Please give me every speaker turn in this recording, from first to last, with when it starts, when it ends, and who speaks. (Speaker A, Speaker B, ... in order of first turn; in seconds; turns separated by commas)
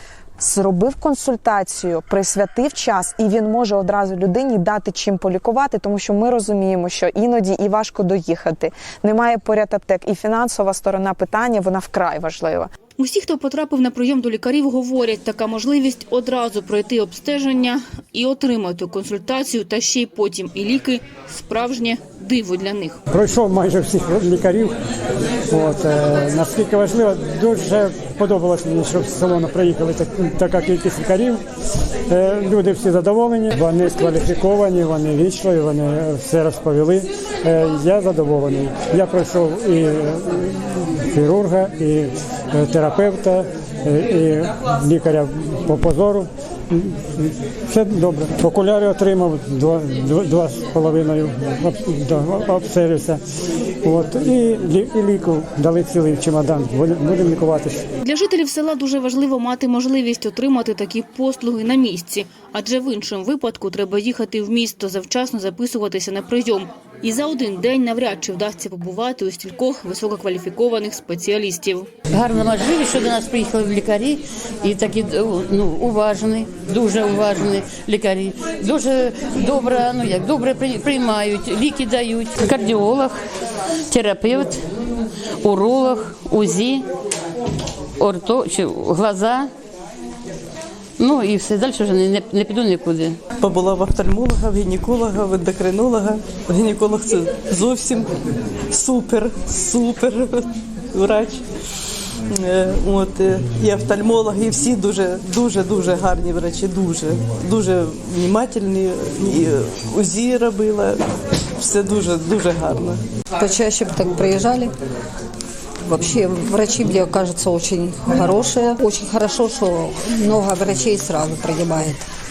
Speaker A: 0.4-12.7, Speaker B: 13.0-23.0, Speaker C: 23.1-24.7, Speaker C: 25.5-31.4, Speaker C: 32.1-53.2, Speaker C: 53.8-57.8, Speaker B: 58.0-71.9, Speaker D: 72.1-83.2, Speaker D: 83.9-84.6, Speaker D: 85.4-86.9, Speaker D: 88.0-89.5, Speaker D: 91.0-93.2, Speaker E: 93.4-98.2, Speaker E: 98.7-101.4, Speaker E: 102.3-113.0, Speaker F: 113.4-114.7, Speaker F: 115.8-122.0